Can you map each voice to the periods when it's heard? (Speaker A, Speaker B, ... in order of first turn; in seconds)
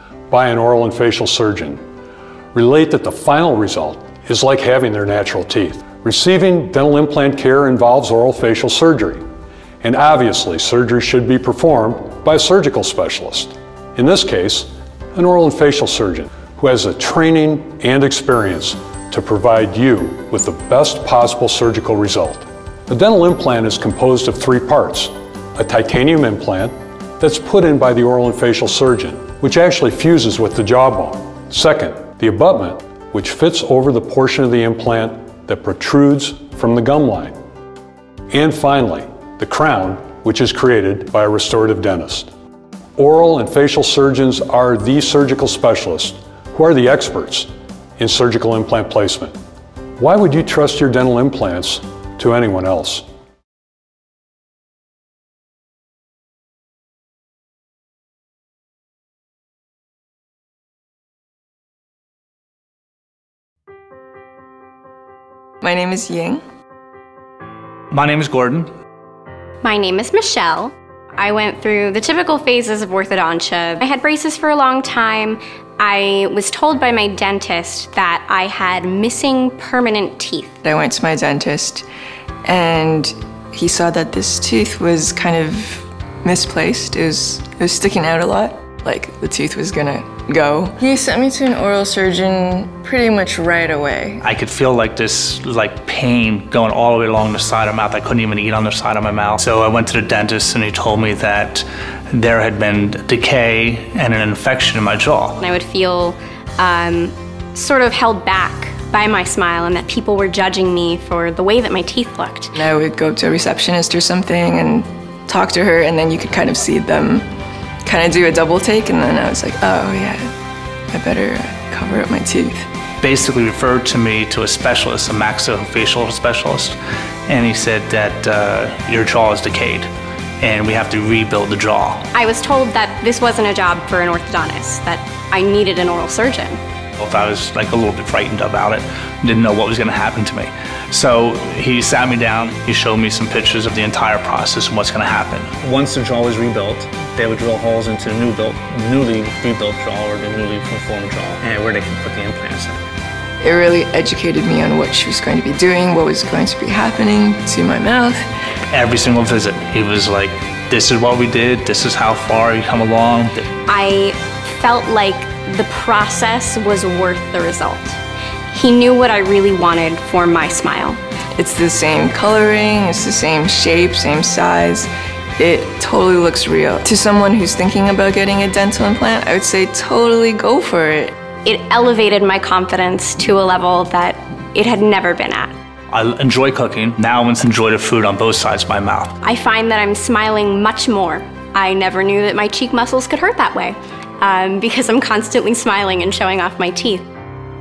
Speaker A: 0.3-1.8, 2.5-9.2, 9.8-37.4, 38.3-42.3, 43.0-49.3, 50.0-53.0
Speaker B: 65.6-66.4, 80.6-81.9, 82.4-94.2, 112.5-117.2, 117.8-120.3, 120.9-122.7, 149.4-149.7, 153.4-158.3, 171.3-181.1
Speaker C: 67.9-68.7, 94.2-105.4, 123.0-129.9, 130.4-132.1, 137.0-152.8, 158.7-163.4, 185.9-189.1
Speaker D: 69.6-80.5, 105.4-112.5, 132.1-136.6, 163.7-168.0, 168.5-171.0, 181.4-185.5, 189.2-197.0